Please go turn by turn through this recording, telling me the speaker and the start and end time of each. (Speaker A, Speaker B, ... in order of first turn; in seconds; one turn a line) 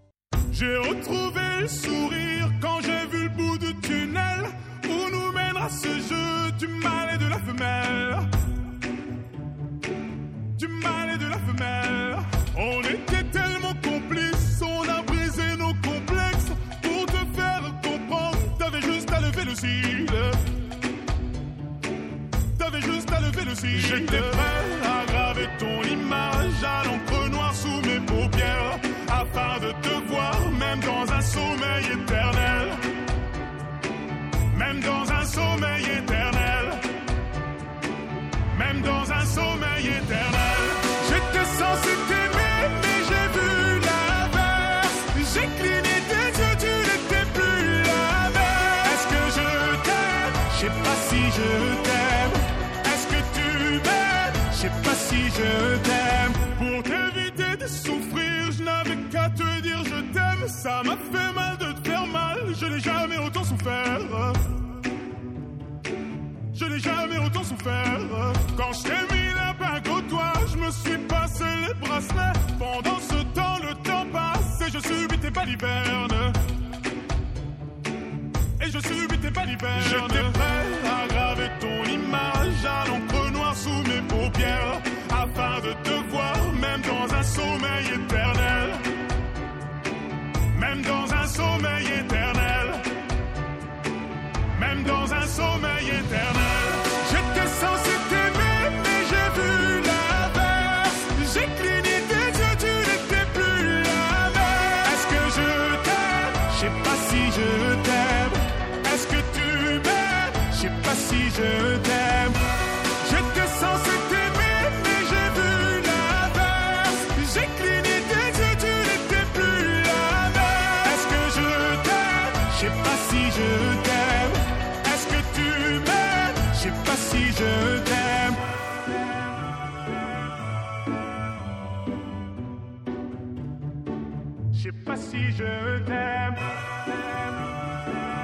Speaker A: 0.5-8.3
Speaker A: 10.6-20.4
Speaker A: 22.6-32.9
Speaker A: 34.5-36.9
Speaker A: 38.5-64.4
Speaker A: 66.5-76.4
Speaker A: 78.6-88.9
Speaker A: 90.5-92.9
Speaker A: 94.5-112.4
Speaker A: 113.0-128.4
Speaker A: 134.6-136.4